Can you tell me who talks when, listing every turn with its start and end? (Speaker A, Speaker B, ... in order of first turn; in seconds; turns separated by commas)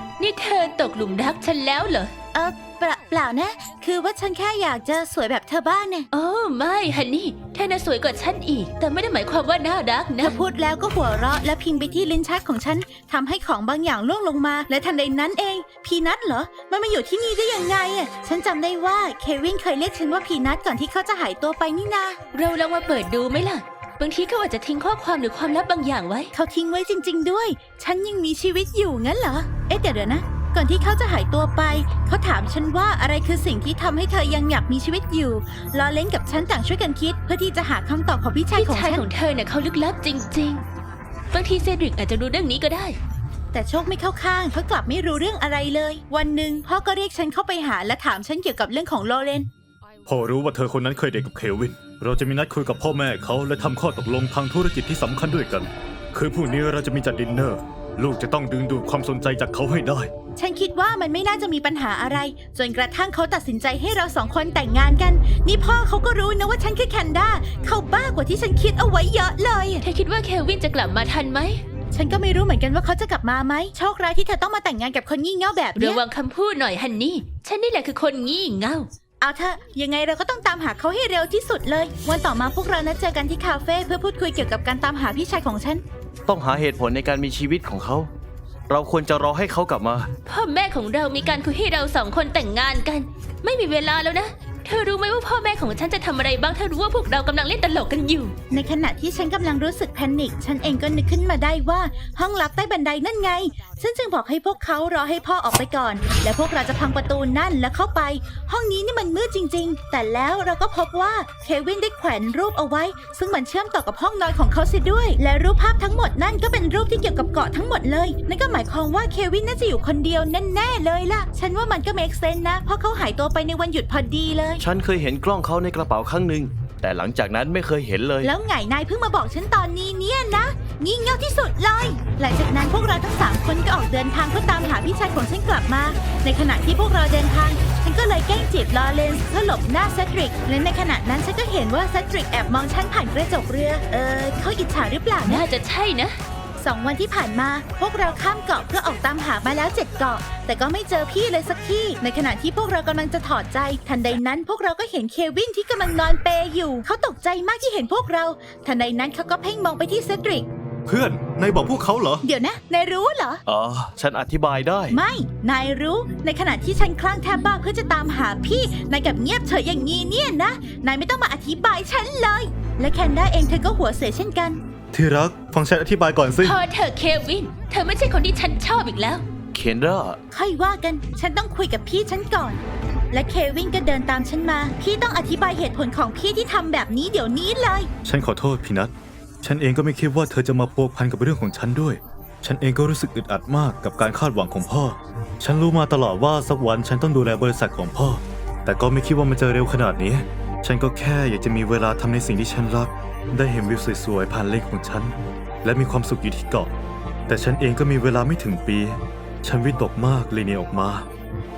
Speaker A: 0.2-2.1, Speaker B: 2.3-6.1, Speaker A: 6.1-10.3, Speaker B: 10.2-22.2, Speaker A: 22.3-26.3, Speaker B: 26.3-39.0, Speaker A: 38.5-40.6, Speaker A: 41.3-43.0, Speaker B: 43.5-49.5, Speaker C: 50.0-60.1, Speaker B: 60.4-69.8, Speaker A: 69.8-71.6, Speaker B: 71.9-76.0, Speaker A: 75.8-78.9, Speaker B: 79.2-85.8, Speaker D: 86.2-88.1, Speaker D: 88.7-90.1, Speaker A: 90.2-98.3, Speaker B: 98.5-124.6, Speaker D: 124.6-128.3, Speaker B: 128.2-145.4, Speaker A: 145.2-146.2, Speaker B: 146.6-160.5, Speaker C: 160.8-162.2, Speaker B: 162.2-163.4, Speaker D: 163.4-165.0, Speaker B: 164.9-174.6, Speaker C: 174.9-176.6, Speaker A: 176.4-179.2, Speaker D: 179.5-180.2, Speaker B: 180.3-187.9, Speaker C: 188.0-206.7, Speaker C: 207.3-211.1